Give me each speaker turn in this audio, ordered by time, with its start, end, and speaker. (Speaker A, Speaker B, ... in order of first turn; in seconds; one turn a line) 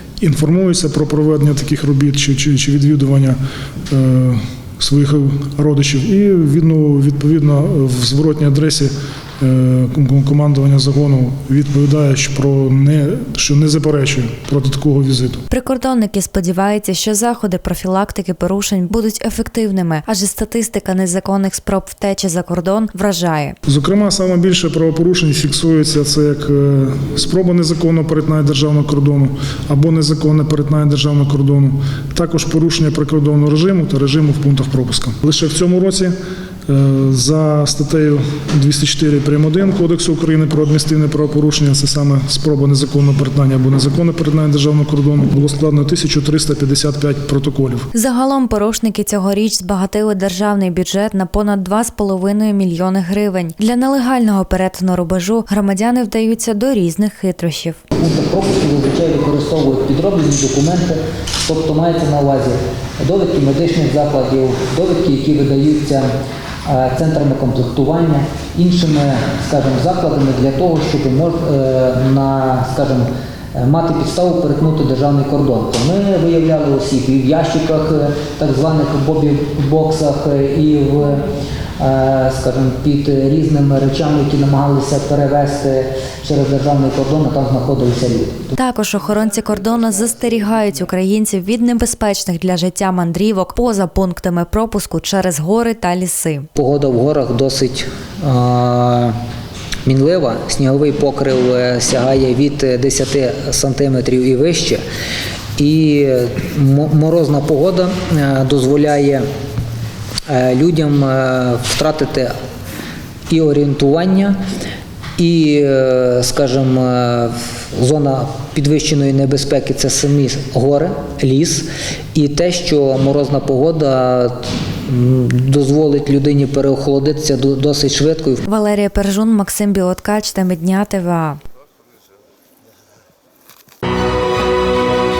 Speaker A: 0.2-3.4
Speaker A: 3.9-15.4
Speaker B: 15.5-23.6
Speaker A: 23.6-36.1
Speaker A: 36.7-47.9
Speaker B: 47.9-57.8
Speaker C: 57.9-66.1
Speaker C: 66.7-88.5
Speaker B: 88.6-96.5
Speaker C: 96.5-99.2
Speaker C: 99.8-104.8
Speaker C: 105.6-109.2
Speaker C: 110.3-112.3
Speaker C: 113.3-114.4
Speaker C: 115.2-128.4
Speaker B: 128.4-131.4